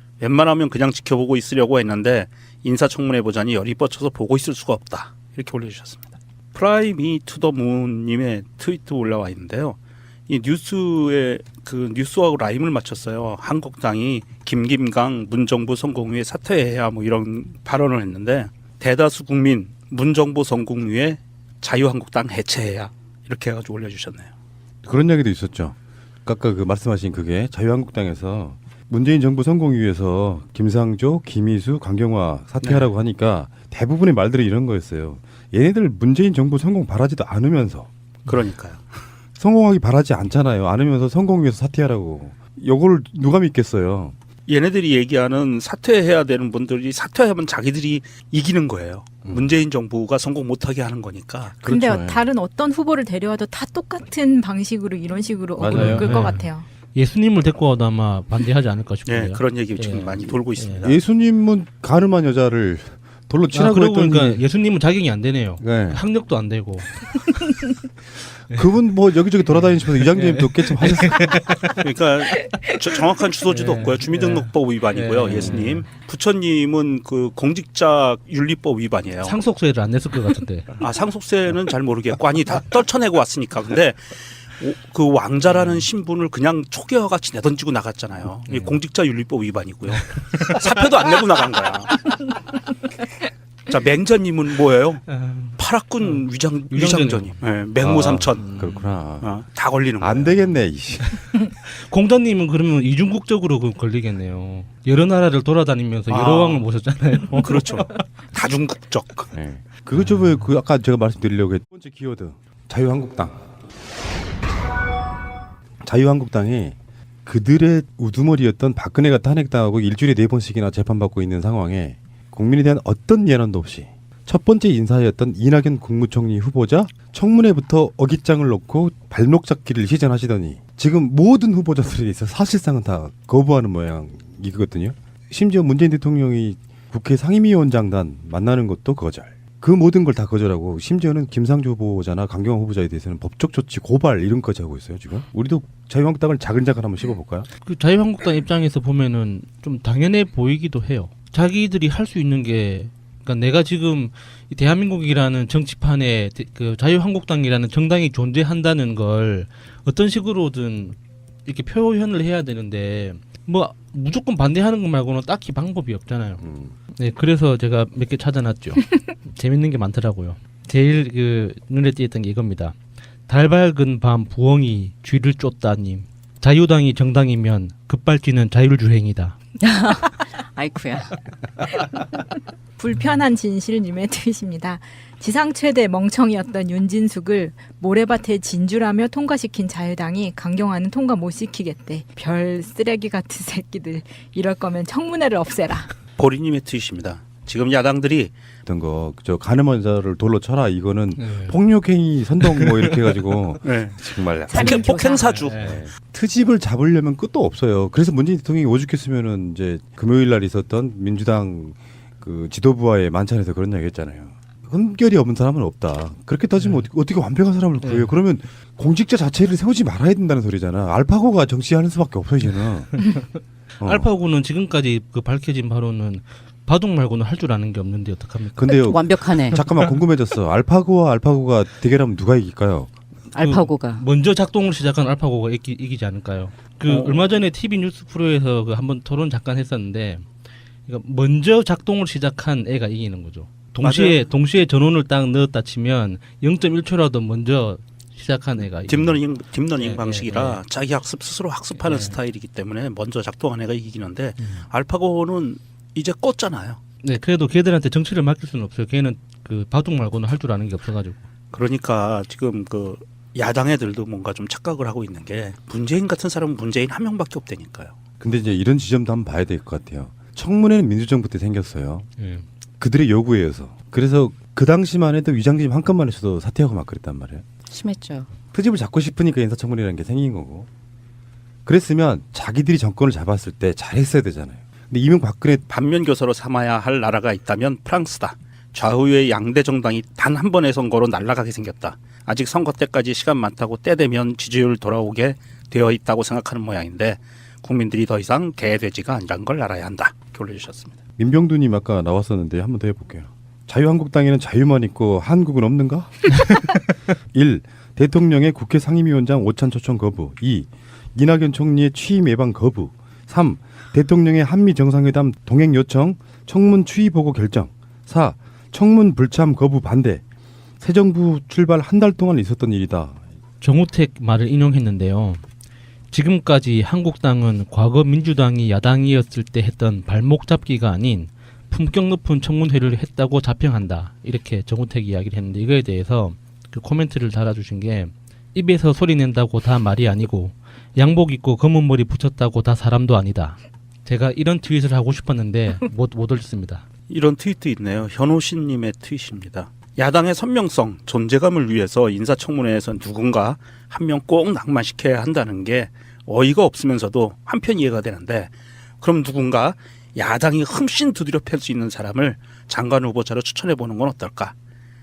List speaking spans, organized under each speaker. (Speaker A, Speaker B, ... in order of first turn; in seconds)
Speaker A: 0.2-24.3, 38.3-38.9, 44.5-51.6, 59.1-61.0, 71.8-79.4, 80.8-92.1, 93.7-95.0, 95.6-98.6, 99.2-100.3, 106.1-106.6, 107.3-109.3, 196.2-198.3, 203.6-204.0, 204.5-205.7, 243.8-244.2, 248.9-256.8, 261.5-267.9, 285.7-301.0, 347.1-364.5
Speaker B: 24.8-37.9, 39.4-44.1, 49.2-49.5, 51.6-52.2, 55.6-56.4, 60.8-64.4, 65.6-66.0, 68.5-71.6, 75.3-75.6, 97.8-99.3, 100.0-101.1, 109.3-113.4, 115.8-147.5, 166.4-166.7, 198.7-205.0, 205.6-222.9, 223.8-224.1, 228.6-232.9, 268.2-272.1, 272.8-277.4, 278.5-280.7, 281.7-285.6, 301.2-306.6, 307.3-320.2, 320.8-323.2
Speaker C: 51.6-56.7, 182.8-195.9, 204.6-205.2
Speaker D: 55.7-56.4, 56.9-60.9, 63.5-67.6, 69.6-71.8, 72.3-72.8, 73.5-75.9, 79.2-80.8, 85.5-85.9, 88.5-88.8, 89.9-90.8, 95.1-97.3, 98.3-98.9, 101.7-108.0, 110.0-110.4, 147.7-166.4, 166.9-172.8, 173.3-179.4, 201.2-201.6, 202.4-202.7, 204.6-205.8, 216.6-216.8, 217.8-218.1, 223.8-229.0, 233.4-240.3, 240.9-249.2, 249.8-250.6, 251.8-252.2, 254.4-254.7, 257.0-261.2, 272.2-272.4, 323.6-325.4, 326.1-346.9
Speaker E: 179.6-181.2, 204.8-205.2, 228.8-229.6, 233.3-234.1, 277.7-278.3